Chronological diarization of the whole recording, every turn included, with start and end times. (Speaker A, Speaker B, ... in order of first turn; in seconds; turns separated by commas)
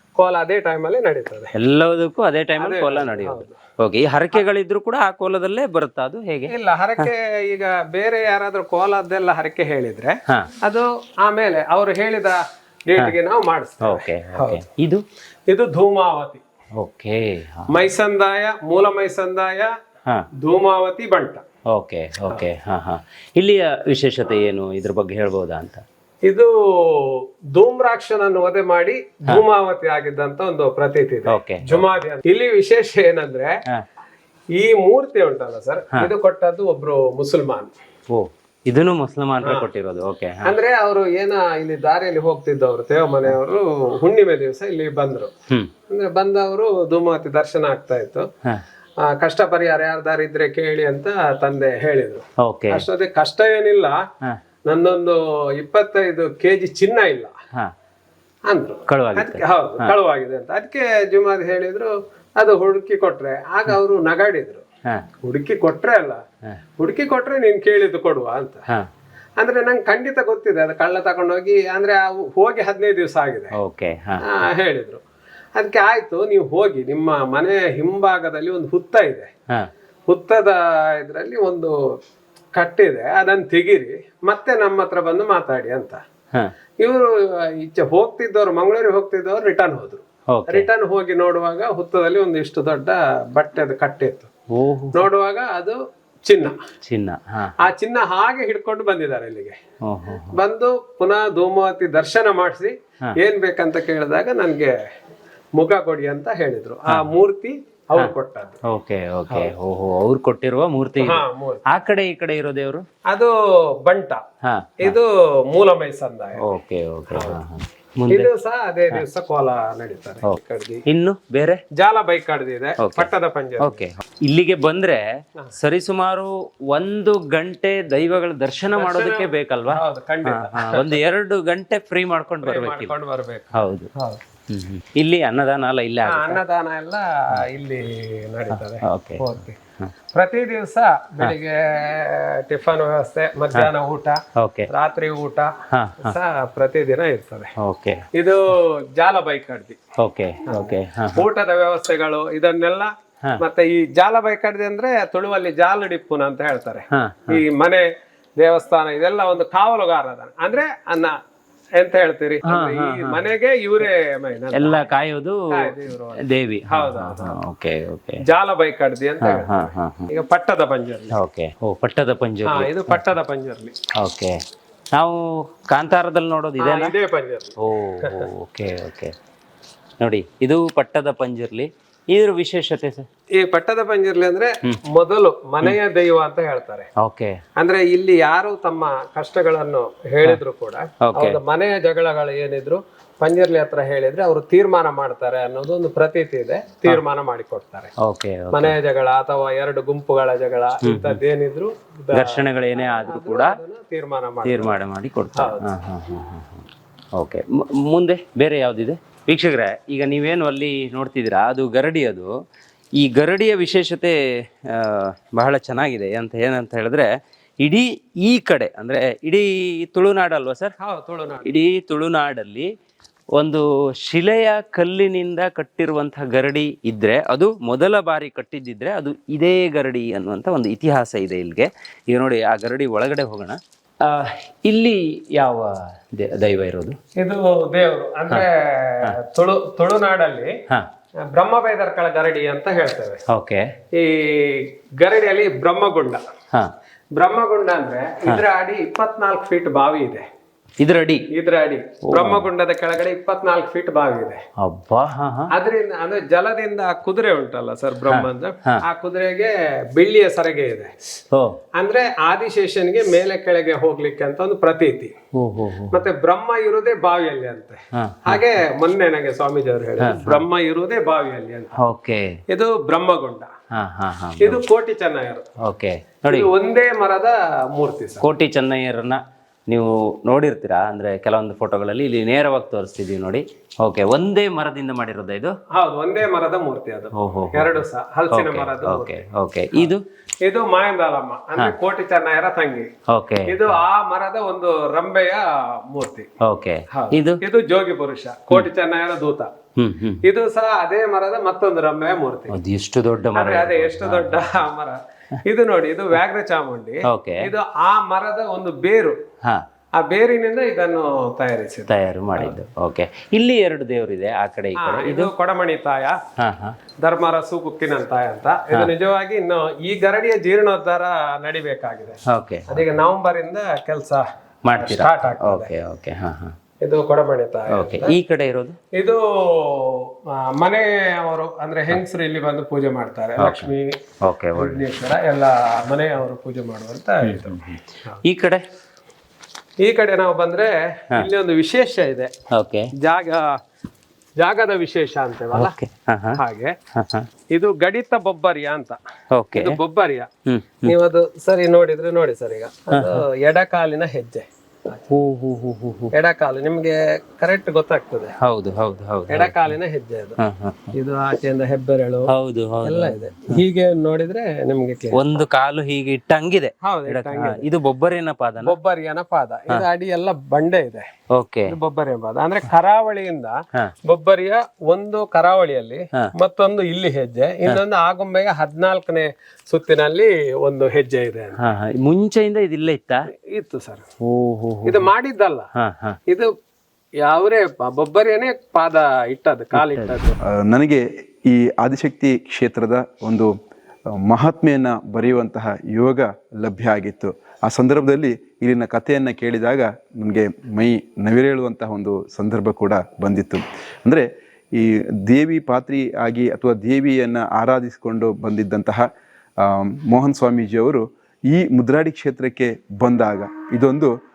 Speaker A: 0.2-1.5, Speaker B: 1.6-7.1, Speaker A: 2.6-3.6, Speaker A: 6.5-14.6, Speaker B: 13.8-15.0, Speaker A: 15.5-16.4, Speaker B: 16.8-17.9, Speaker A: 17.7-19.7, Speaker A: 20.4-21.4, Speaker B: 21.7-25.8, Speaker A: 26.2-33.5, Speaker B: 31.3-31.9, Speaker A: 34.6-37.7, Speaker B: 38.1-40.5, Speaker A: 40.5-45.3, Speaker A: 45.9-48.2, Speaker A: 49.1-54.0, Speaker B: 52.4-52.8, Speaker A: 54.7-57.3, Speaker A: 58.5-64.6, Speaker B: 58.9-60.0, Speaker A: 65.2-66.2, Speaker A: 66.8-68.6, Speaker A: 69.4-73.5, Speaker B: 73.6-74.2, Speaker A: 74.2-75.0, Speaker A: 75.6-79.3, Speaker A: 80.1-81.8, Speaker A: 82.6-86.0, Speaker A: 86.8-94.3, Speaker B: 90.3-90.7, Speaker B: 94.5-95.1, Speaker A: 94.9-96.6, Speaker B: 96.9-97.7, Speaker A: 97.6-99.6, Speaker B: 99.9-100.4, Speaker A: 100.3-104.8, Speaker A: 105.6-108.6, Speaker B: 108.7-112.8, Speaker A: 111.0-111.6, Speaker A: 113.1-114.2, Speaker B: 114.4-115.0, Speaker A: 114.8-116.4, Speaker B: 116.4-118.3, Speaker A: 117.1-117.4, Speaker A: 118.1-120.8, Speaker B: 120.3-121.6, Speaker A: 121.8-123.8, Speaker B: 122.8-123.1, Speaker B: 123.6-125.0, Speaker B: 125.6-132.9, Speaker A: 128.7-131.0, Speaker A: 132.4-134.2, Speaker B: 133.5-133.9, Speaker B: 134.5-136.4, Speaker A: 136.1-139.6, Speaker B: 138.5-139.3, Speaker A: 140.1-144.2, Speaker B: 144.4-144.7, Speaker A: 144.7-145.5, Speaker B: 145.7-146.2, Speaker A: 146.0-147.5, Speaker B: 147.6-148.0, Speaker A: 148.2-149.8, Speaker B: 150.0-151.3, Speaker A: 150.5-157.8, Speaker B: 156.9-157.4, Speaker A: 158.4-161.2, Speaker A: 161.8-164.9, Speaker B: 162.5-163.3, Speaker B: 164.5-168.2, Speaker A: 165.5-167.4, Speaker A: 168.2-171.2, Speaker B: 169.2-170.1, Speaker B: 171.2-173.1, Speaker A: 172.5-173.8, Speaker B: 174.0-174.4, Speaker B: 174.9-176.9, Speaker A: 176.6-178.2, Speaker B: 177.6-179.1, Speaker B: 180.0-183.1, Speaker A: 183.4-186.9, Speaker B: 187.0-187.4, Speaker A: 187.6-197.9, Speaker B: 191.1-191.4, Speaker B: 198.0-198.8, Speaker A: 198.5-204.8, Speaker B: 200.8-201.2, Speaker B: 202.1-203.6, Speaker B: 204.4-206.7, Speaker A: 205.3-205.7, Speaker B: 207.2-212.3, Speaker B: 213.0-214.2, Speaker B: 214.7-217.1, Speaker B: 217.6-220.7, Speaker A: 220.8-221.5, Speaker B: 221.5-222.7, Speaker B: 223.4-237.0, Speaker A: 237.2-240.5, Speaker A: 241.3-243.2, Speaker B: 243.3-243.6, Speaker A: 243.9-246.2, Speaker A: 247.2-250.2, Speaker B: 250.8-251.3, Speaker A: 251.3-254.4, Speaker B: 252.1-252.5, Speaker B: 254.6-255.5, Speaker A: 255.5-260.9, Speaker B: 258.1-258.8, Speaker A: 261.8-265.1, Speaker B: 265.4-266.1, Speaker A: 265.9-271.8, Speaker B: 268.0-268.5, Speaker B: 270.0-270.4, Speaker B: 271.8-272.4, Speaker A: 272.5-273.5, Speaker B: 273.8-274.6, Speaker A: 274.4-275.5, Speaker B: 275.6-276.5, Speaker A: 276.3-278.3, Speaker B: 278.2-285.5, Speaker A: 285.8-289.2, Speaker B: 287.2-290.0, Speaker A: 290.4-292.9, Speaker B: 293.1-293.8, Speaker A: 293.5-296.3, Speaker B: 296.4-297.4, Speaker A: 296.9-299.5, Speaker B: 299.8-300.2, Speaker A: 300.2-302.6, Speaker B: 302.5-304.6, Speaker A: 303.4-309.2, Speaker B: 307.1-307.4, Speaker A: 310.0-312.6, Speaker B: 311.9-315.3, Speaker A: 314.8-316.2, Speaker B: 316.4-316.8, Speaker A: 317.0-324.2, Speaker B: 322.3-322.9, Speaker B: 324.7-326.5, Speaker A: 324.8-325.7, Speaker A: 326.8-328.1, Speaker B: 327.7-328.8, Speaker A: 329.0-333.9, Speaker B: 333.4-333.7, Speaker B: 334.2-334.9, Speaker A: 334.6-338.2, Speaker B: 337.2-338.6, Speaker A: 339.8-342.3, Speaker B: 342.6-342.9, Speaker A: 343.0-343.4, Speaker A: 344.4-345.8, Speaker B: 345.5-346.4, Speaker A: 346.4-346.7, Speaker B: 346.9-347.3, Speaker A: 347.5-349.0, Speaker B: 349.4-349.8, Speaker A: 349.5-350.3, Speaker B: 350.5-350.9, Speaker A: 350.9-354.4, Speaker B: 352.9-353.2, Speaker B: 355.1-356.1, Speaker A: 356.1-358.3, Speaker B: 358.4-359.7, Speaker A: 359.3-360.4, Speaker B: 360.4-360.9, Speaker A: 360.9-362.3, Speaker B: 362.3-363.6, Speaker A: 362.8-365.2, Speaker B: 365.1-368.8, Speaker A: 366.8-367.6, Speaker A: 368.6-371.1, Speaker B: 371.4-371.7, Speaker A: 371.7-373.5, Speaker A: 374.1-381.6, Speaker B: 381.6-383.2, Speaker A: 383.5-384.0, Speaker B: 384.2-385.1, Speaker A: 384.9-385.7, Speaker B: 385.8-386.2, Speaker A: 387.2-390.4, Speaker B: 389.7-390.2, Speaker C: 390.6-393.5, Speaker C: 394.3-409.0, Speaker C: 409.6-414.1